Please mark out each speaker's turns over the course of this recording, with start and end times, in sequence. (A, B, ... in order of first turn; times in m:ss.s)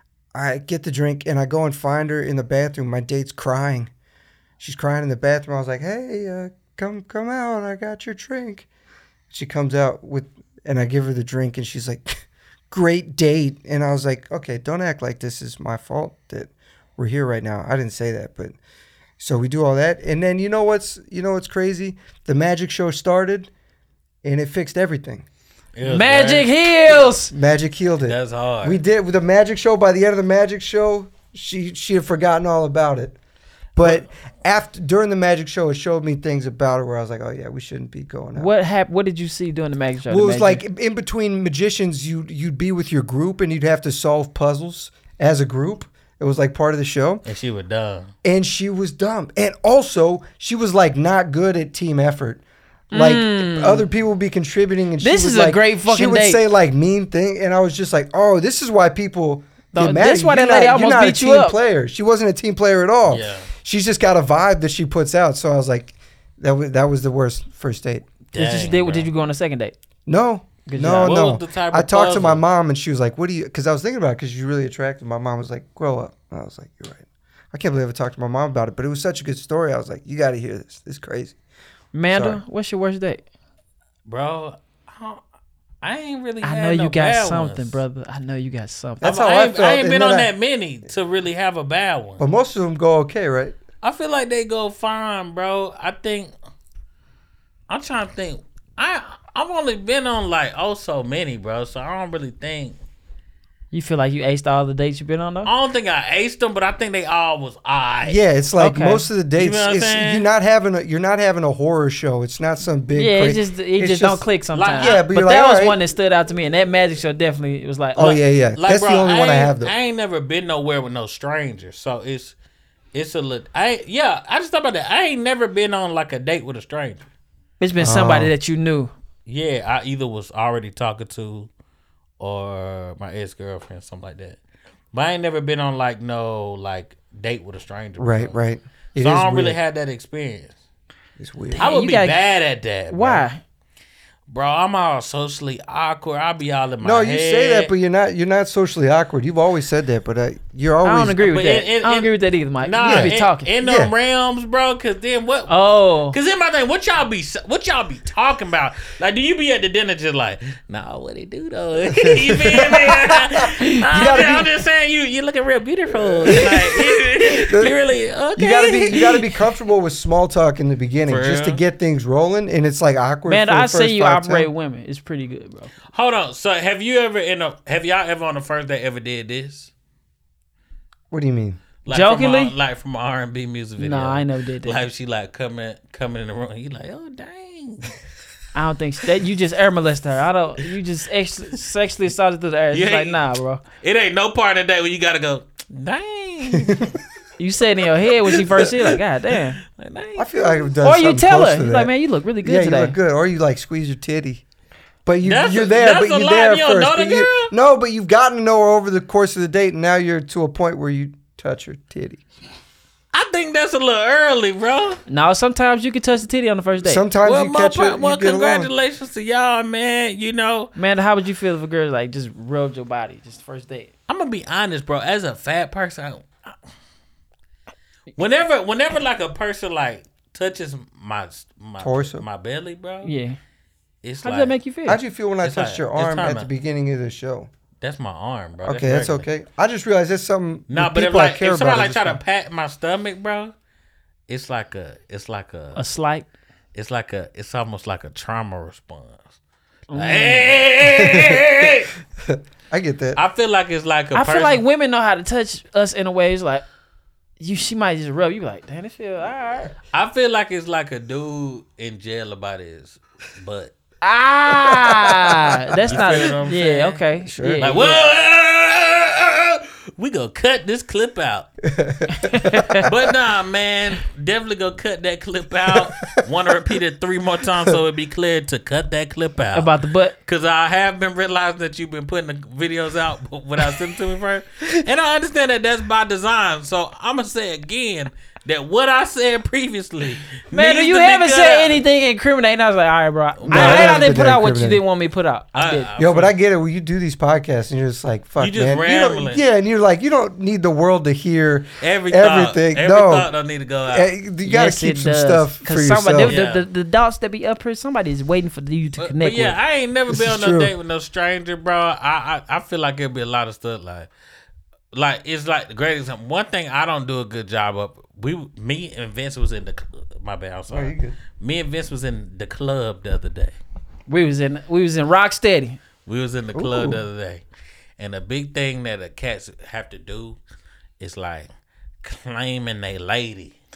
0:00.3-0:03.9 A
0:04.6-0:08.6 A
0:09.3-0:18.6 A
0:19.2-0:23.5 A
0:24.2-0:25.2 A
0:25.8-0:26.5 B
0:25.8-0:27.3 C
0:27.3-0:33.2 A
0:28.0-0:28.8 B
0:33.8-0:38.5 A
0:38.3-0:40.6 C
0:40.1-0:47.2 A
0:47.2-0:48.1 B
0:48.2-1:08.1 A
0:52.9-0:53.8 C
0:55.0-0:56.4 C
0:59.7-1:01.6 C
1:03.1-1:03.5 B
1:08.3-1:09.1 B
1:08.4-1:09.7 C
1:10.1-1:21.4 A
1:10.6-1:11.2 C
1:11.0-1:12.4 B
1:21.9-1:23.2 C
1:22.1-1:22.4 A
1:24.0-1:25.2 B
1:25.8-1:27.8 B
1:26.4-1:29.2 C
1:29.0-1:30.3 A
1:29.0-1:32.2 B
1:32.2-1:33.6 A
1:33.8-1:36.3 B
1:37.7-1:42.8 B
1:43.7-1:45.5 C
1:45.4-1:48.2 B
1:48.0-1:55.8 A
1:48.6-1:49.0 C
1:49.4-1:50.2 B
1:52.9-1:58.2 C
1:54.5-1:55.0 B
1:58.0-1:59.7 A
1:58.0-2:02.3 B
2:02.9-2:07.0 B
2:07.6-2:08.9 C
2:07.8-2:08.3 A
2:09.2-2:11.5 B
2:12.2-2:14.4 B
2:14.9-2:18.3 B
2:18.0-2:19.6 A
2:19.0-2:20.6 B
2:21.2-2:21.7 A
2:21.5-2:22.2 C
2:21.6-2:23.2 B
2:22.9-2:23.4 C
2:24.3-2:27.7 B
2:26.8-2:31.3 A
2:30.8-2:33.5 C
2:31.2-2:35.5 B
2:32.8-2:33.9 A
2:35.5-2:36.2 C
2:36.1-2:49.4 B
2:41.9-2:44.5 A
2:45.9-2:47.7 A
2:48.4-2:54.5 A
2:51.0-2:51.6 B
2:53.3-2:55.7 C
2:55.9-2:59.7 B
3:01.1-3:01.6 A
3:01.8-3:07.9 B
3:01.9-3:02.5 C
3:03.8-3:04.8 C
3:08.5-3:13.6 C
3:12.7-3:13.2 B
3:13.7-3:16.9 B
3:16.5-3:16.8 A
3:17.4-3:19.6 C
3:19.7-3:20.7 B
3:20.2-3:21.9 A
3:20.8-3:22.9 C
3:22.4-3:24.4 A
3:25.0-3:32.2 A
3:25.2-3:27.5 B
3:33.1-3:35.0 B
3:35.1-3:37.0 C
3:36.8-3:38.7 A
3:37.2-3:40.7 B
3:40.8-3:43.9 C
3:44.1-3:46.5 B
3:48.2-3:53.1 B
3:51.8-3:52.2 A
3:53.0-3:53.4 C
3:54.0-3:54.5 B
3:54.2-3:55.0 C
3:54.9-3:57.5 A
3:55.4-3:56.5 B
3:57.8-3:59.3 B
3:58.6-4:02.2 A
4:00.7-4:03.5 B
4:04.3-4:05.8 B
4:05.8-4:06.2 C
4:06.7-4:09.3 B
4:09.9-4:10.6 C
4:09.9-4:11.9 B
4:10.9-4:11.6 A
4:12.3-4:13.2 A
4:13.1-4:14.6 B
4:14.1-4:16.6 C
4:17.4-4:19.7 C
4:19.9-4:23.7 B
4:24.0-4:28.0 C
4:25.8-4:26.2 A
4:25.9-4:27.0 B
4:27.2-4:27.8 A
4:27.6-4:31.5 B
4:31.7-4:33.1 A
4:32.1-4:32.8 C
4:32.8-4:51.8 B
4:39.5-4:40.1 C
4:50.5-4:55.9 C
4:53.4-4:54.1 B
4:53.5-4:54.8 A
4:55.5-4:56.3 B
4:56.0-5:03.3 A
4:58.4-4:59.4 B
5:01.8-5:04.1 B
5:03.9-5:06.4 A
5:04.4-5:09.6 C
5:06.3-5:06.6 B
5:09.0-5:14.1 B
5:10.1-5:10.7 A
5:14.9-5:23.6 B
5:20.7-5:21.2 A
5:24.1-5:25.8 C
5:26.0-5:27.4 B
5:26.5-5:27.0 A
5:28.0-5:30.4 B
5:31.0-5:31.5 B
5:32.0-5:33.5 B